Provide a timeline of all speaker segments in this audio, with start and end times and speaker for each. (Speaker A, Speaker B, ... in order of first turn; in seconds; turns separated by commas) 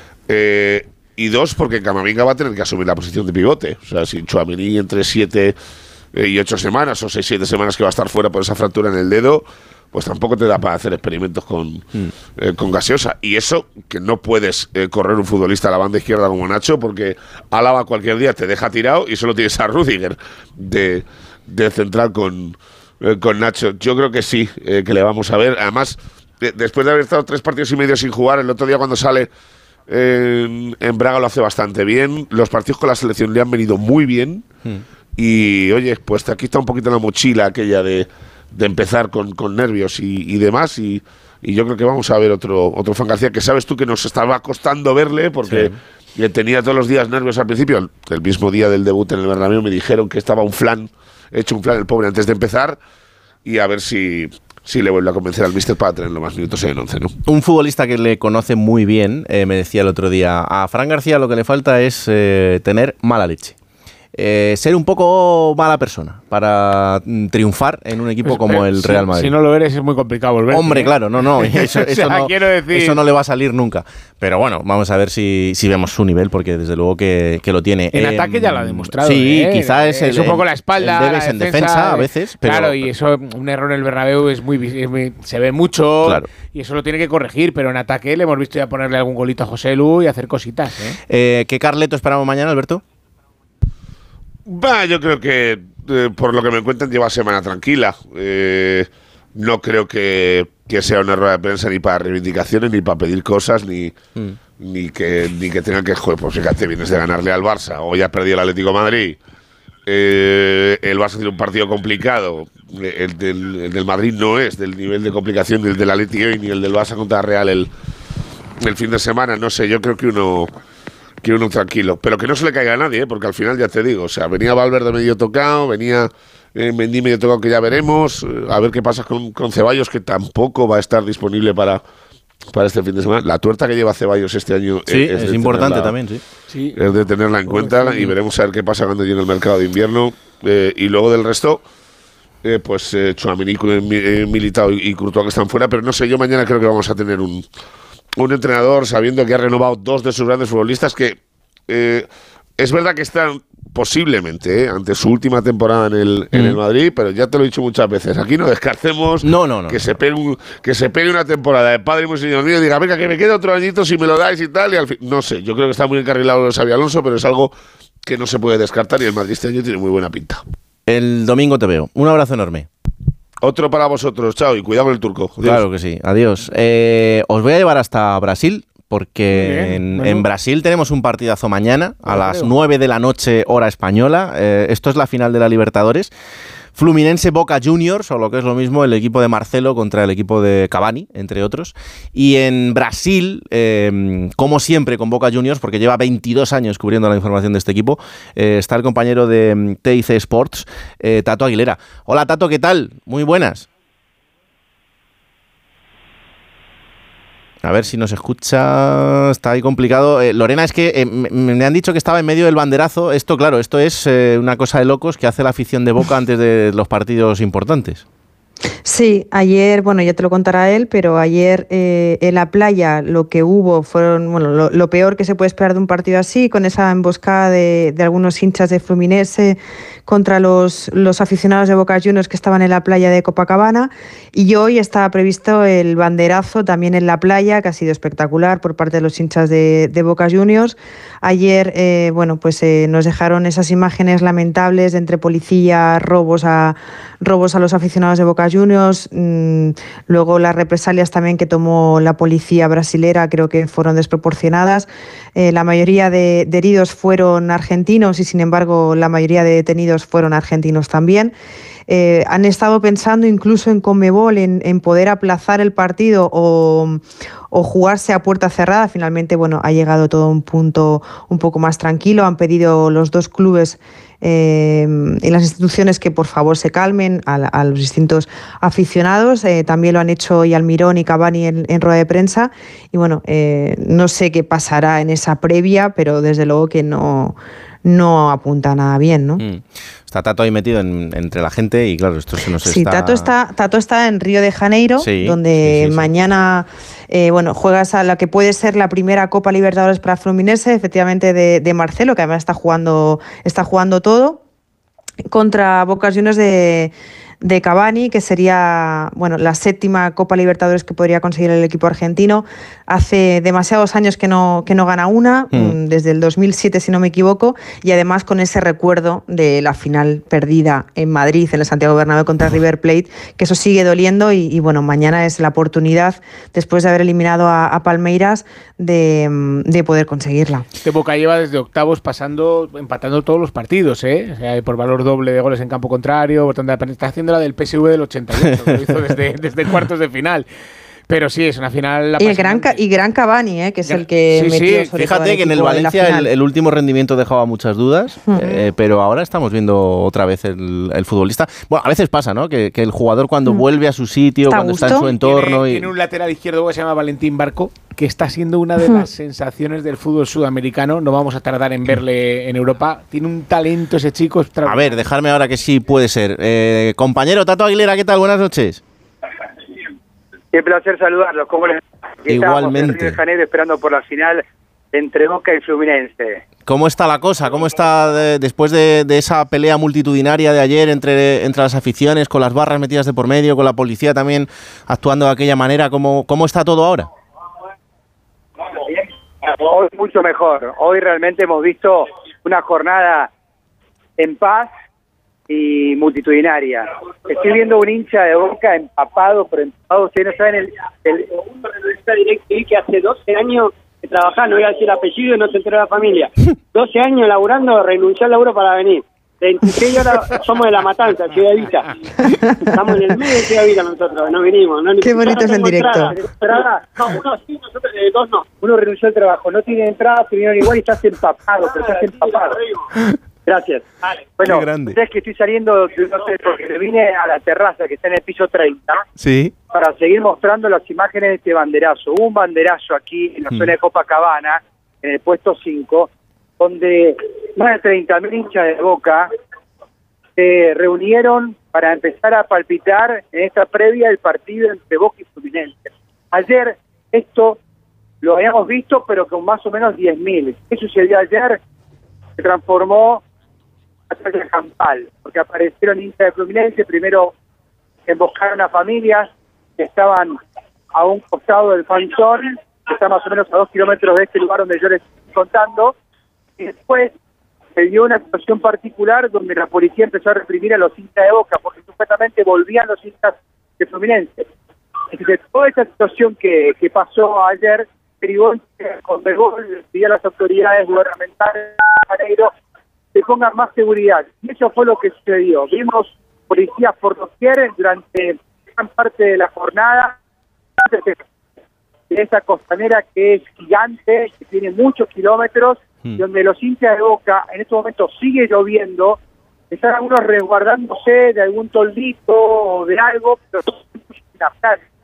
Speaker A: 0.3-5.5, Speaker A: 6.1-29.3, Speaker A: 29.9-34.5, Speaker A: 35.2-52.8, Speaker B: 45.5-45.8, Speaker A: 53.4-57.1, Speaker B: 57.2-63.5, Speaker B: 64.1-69.3, Speaker C: 68.2-73.0, Speaker B: 70.5-82.9, Speaker C: 77.9-91.0, Speaker B: 86.0-86.3, Speaker B: 91.1-92.8, Speaker A: 94.5-104.0, Speaker A: 104.6-109.2, Speaker A: 109.8-117.7, Speaker A: 118.6-120.5, Speaker A: 121.2-131.8, Speaker A: 132.5-135.9, Speaker B: 134.9-136.2, Speaker C: 136.5-136.8, Speaker A: 136.7-141.6, Speaker A: 142.4-147.4, Speaker A: 148.2-151.2, Speaker A: 151.7-152.1, Speaker A: 152.6-167.5, Speaker B: 159.2-159.8, Speaker A: 168.0-170.4, Speaker B: 170.9-172.7, Speaker A: 173.4-175.6, Speaker B: 175.4-186.1, Speaker C: 179.3-180.2, Speaker C: 182.1-182.4, Speaker B: 186.7-203.7, Speaker B: 207.6-218.0, Speaker D: 218.8-261.3, Speaker D: 261.9-289.4, Speaker B: 289.4-293.3, Speaker D: 292.6-304.4, Speaker B: 295.0-296.1, Speaker D: 305.3-330.6, Speaker C: 330.8-340.4, Speaker C: 341.1-342.8, Speaker D: 342.2-346.3, Speaker C: 343.9-344.9, Speaker B: 344.9-355.9, Speaker D: 348.3-348.6, Speaker D: 354.5-355.1, Speaker C: 355.1-365.0, Speaker B: 364.6-368.8, Speaker E: 370.5-376.4, Speaker B: 372.3-373.2, Speaker B: 376.6-387.1, Speaker E: 388.8-393.3, Speaker E: 394.2-394.7, Speaker E: 395.5-401.3, Speaker F: 401.8-411.9, Speaker F: 412.7-418.4, Speaker D: 415.0-416.1, Speaker E: 416.4-416.8, Speaker E: 418.6-422.6, Speaker E: 423.5-429.0, Speaker B: 424.4-425.0, Speaker B: 429.2-429.5, Speaker E: 429.7-436.1, Speaker E: 436.6-439.3, Speaker E: 440.4-447.6, Speaker E: 448.2-451.6, Speaker E: 452.4-453.2, Speaker E: 454.1-457.3, Speaker E: 458.1-460.4, Speaker E: 460.9-465.9, Speaker E: 466.6-467.1, Speaker E: 467.8-474.4, Speaker E: 475.1-482.5, Speaker E: 483.1-490.1, Speaker E: 490.8-491.2, Speaker E: 492.1-499.2, Speaker E: 499.7-504.8